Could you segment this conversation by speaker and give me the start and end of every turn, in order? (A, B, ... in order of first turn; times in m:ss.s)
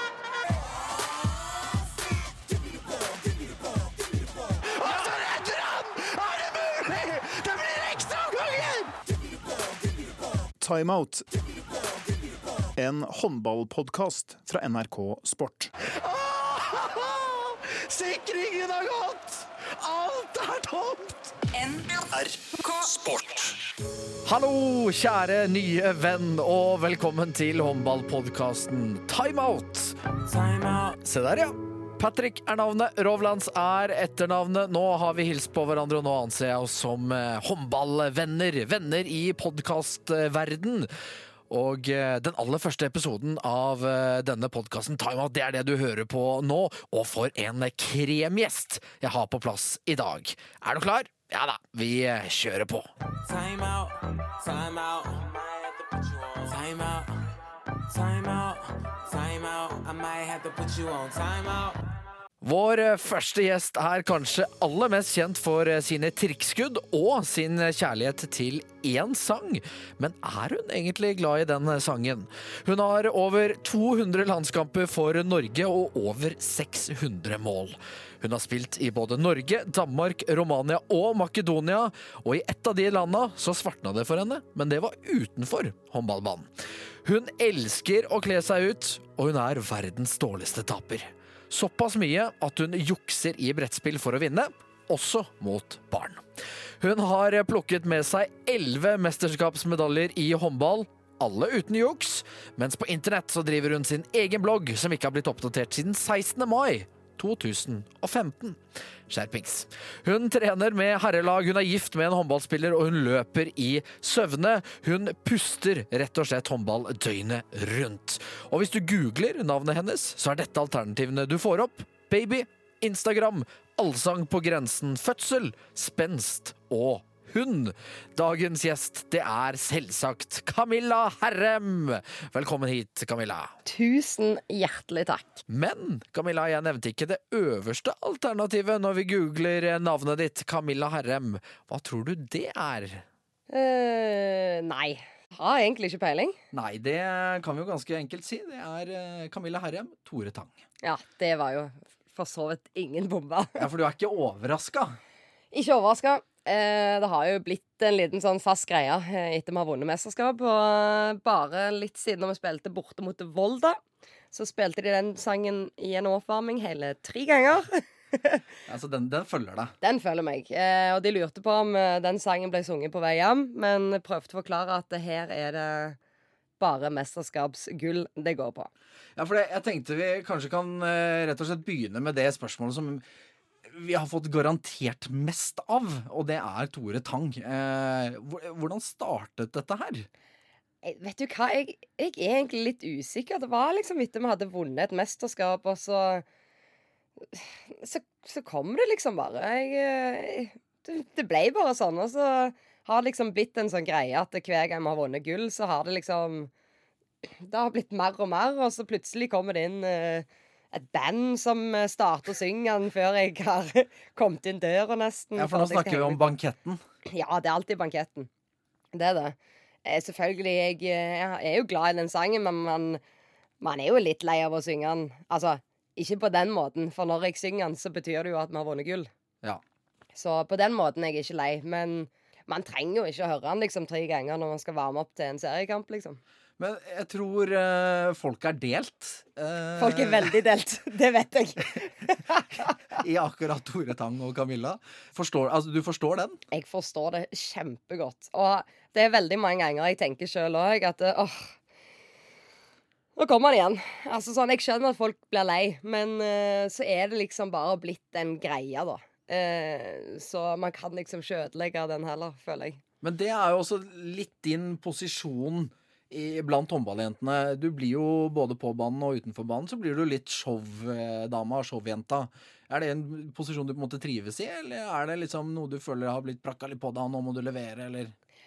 0:04.6-0:08.9 A
0:10.6-0:11.3 B
0:12.8-0:15.7 B
0:15.9-0:21.4 A
0:24.2-0:30.0 C
0:30.3-0:31.0 D
0:31.0-0:40.9 C
0:41.5-0:52.9 C
0:53.2-0:57.4 D
0:57.9-1:01.8 D
1:02.4-1:26.5 C
1:27.0-1:36.2 C
1:36.8-2:13.5 C
2:13.7-2:15.4 E
2:15.5-2:23.0 C
2:23.5-2:26.4 E
2:26.5-2:30.5 C
2:30.8-2:33.7 E
2:33.6-2:35.0 C
2:35.5-2:43.8 E
2:44.3-2:48.4 E
2:48.7-2:49.7 C
2:49.8-2:56.0 E
2:56.6-2:58.7 E
2:59.2-3:03.0 C
3:03.7-3:10.1 C
3:10.8-3:16.2 E
3:17.3-3:26.5 E
3:27.3-3:36.2 E
3:35.4-3:36.8 C
3:37.1-3:38.3 E
3:38.9-3:43.0 E
3:43.6-3:49.1 E
3:50.2-3:56.2 E
3:56.6-4:00.3 C
3:59.8-4:02.8 E
4:02.9-4:06.4 C
4:06.5-4:11.6 E
4:13.2-4:22.8 E
4:23.0-4:38.1 C